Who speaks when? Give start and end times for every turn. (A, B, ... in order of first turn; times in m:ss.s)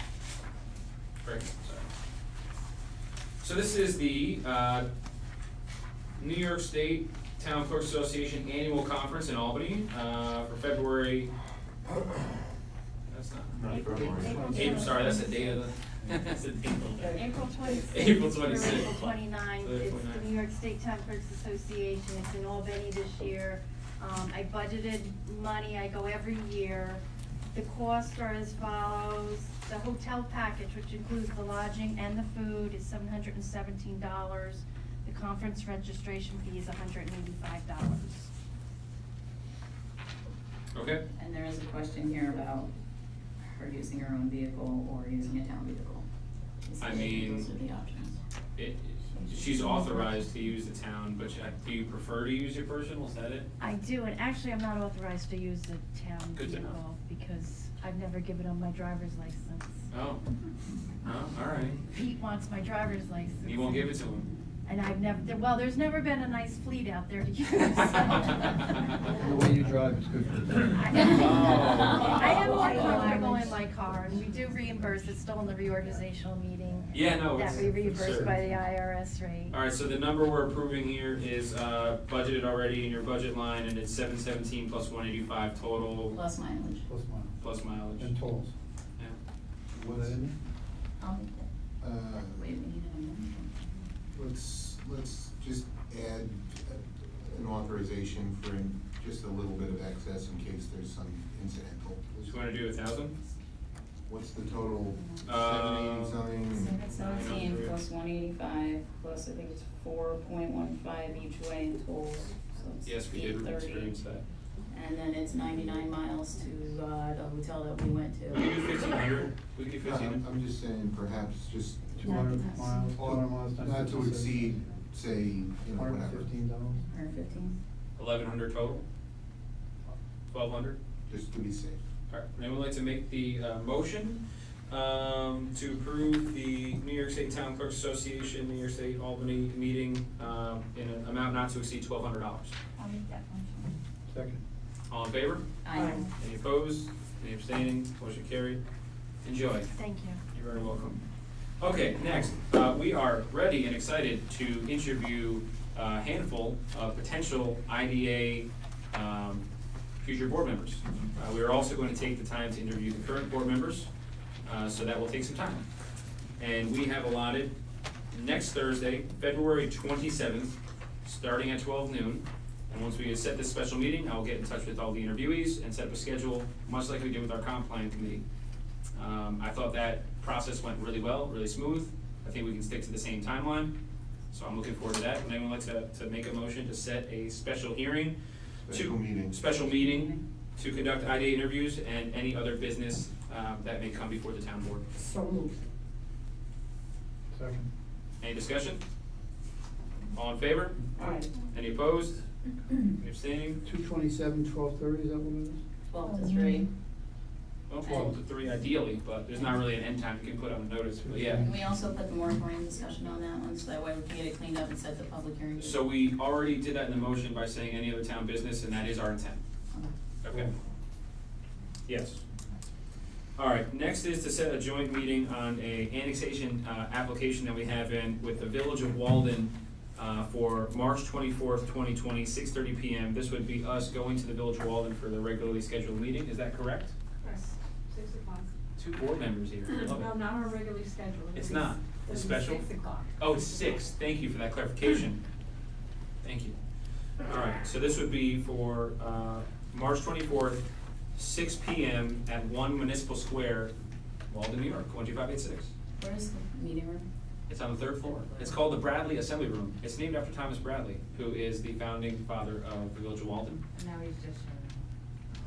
0:01.2-0:01.9 A
0:03.4-0:04.9 A
0:06.2-0:11.3 A
0:13.1-0:13.6 A
0:13.5-0:14.5 B
0:13.7-0:15.7 C
0:14.0-0:15.2 D
0:14.5-0:17.2 A
0:17.0-0:27.0 C
0:17.9-0:20.3 A
0:27.5-0:38.3 C
0:40.7-0:41.0 A
0:41.2-0:42.7 E
0:43.4-0:46.1 E
0:46.6-0:48.2 E
0:46.8-0:47.6 A
0:48.6-0:53.5 A
0:49.2-0:50.1 E
0:53.6-0:59.9 C
0:56.4-0:56.7 A
0:59.9-1:00.2 A
1:01.0-1:01.8 A
1:01.8-1:03.9 C
1:03.4-1:04.3 A
1:04.6-1:09.0 C
1:09.2-1:11.2 D
1:10.7-1:19.6 C
1:11.0-1:12.6 A
1:12.0-1:13.5 F
1:16.9-1:18.3 A
1:17.6-1:18.6 D
1:19.5-1:26.2 A
1:26.1-1:26.9 E
1:26.9-1:27.3 D
1:27.4-1:28.2 A
1:28.0-1:28.5 D
1:29.7-1:30.2 B
1:29.9-1:30.4 D
1:31.0-1:31.5 E
1:31.8-1:32.5 B
1:32.1-1:33.9 E
1:34.1-1:42.3 B
1:42.2-1:43.2 A
1:44.1-1:46.8 B
1:45.2-1:46.3 A
1:46.5-1:54.0 E
1:46.8-1:47.8 A
1:52.8-1:54.2 A
1:54.7-1:58.6 E
1:58.3-2:00.2 A
1:59.8-2:01.8 B
2:02.0-2:04.7 D
2:02.0-2:03.0 E
2:03.0-2:06.3 B
2:05.7-2:06.8 D
2:06.8-2:07.6 E
2:08.0-2:08.8 A
2:10.3-2:10.8 A
2:11.1-2:11.8 B
2:12.1-2:22.6 A
2:24.1-2:24.4 D
2:24.9-2:28.6 A
2:25.6-2:26.0 E
2:29.2-2:29.7 A
2:29.7-2:30.2 C
2:30.3-2:31.0 A
2:31.6-2:39.5 A
2:40.0-2:43.9 A
2:44.4-2:45.7 A
2:46.4-2:47.6 A
2:48.1-2:58.2 A
2:59.0-3:03.7 A
3:04.3-3:08.2 A
3:08.6-3:09.4 B
3:08.7-3:14.9 A
3:09.8-3:10.2 E
3:17.3-3:17.7 D
3:18.2-3:18.8 A
3:20.1-3:20.8 A
3:21.0-3:21.3 F
3:21.5-3:22.2 A
3:23.0-3:23.6 A
3:23.6-3:25.6 D
3:25.9-3:26.7 E
3:27.7-3:31.5 A
3:27.8-3:28.2 D
3:31.0-3:31.7 D
3:31.4-3:35.8 E
3:35.6-3:39.4 A
3:40.2-3:40.6 A
3:41.9-3:42.2 A
3:43.4-3:57.0 A
3:57.2-3:58.5 F
3:58.8-4:00.2 A
3:59.7-4:03.3 F
4:01.3-4:05.2 A
4:06.2-4:06.6 A
4:07.2-4:13.7 A
4:14.3-4:15.7 A
4:16.0-4:17.1 E
4:17.5-4:23.6 A
4:23.7-4:24.8 F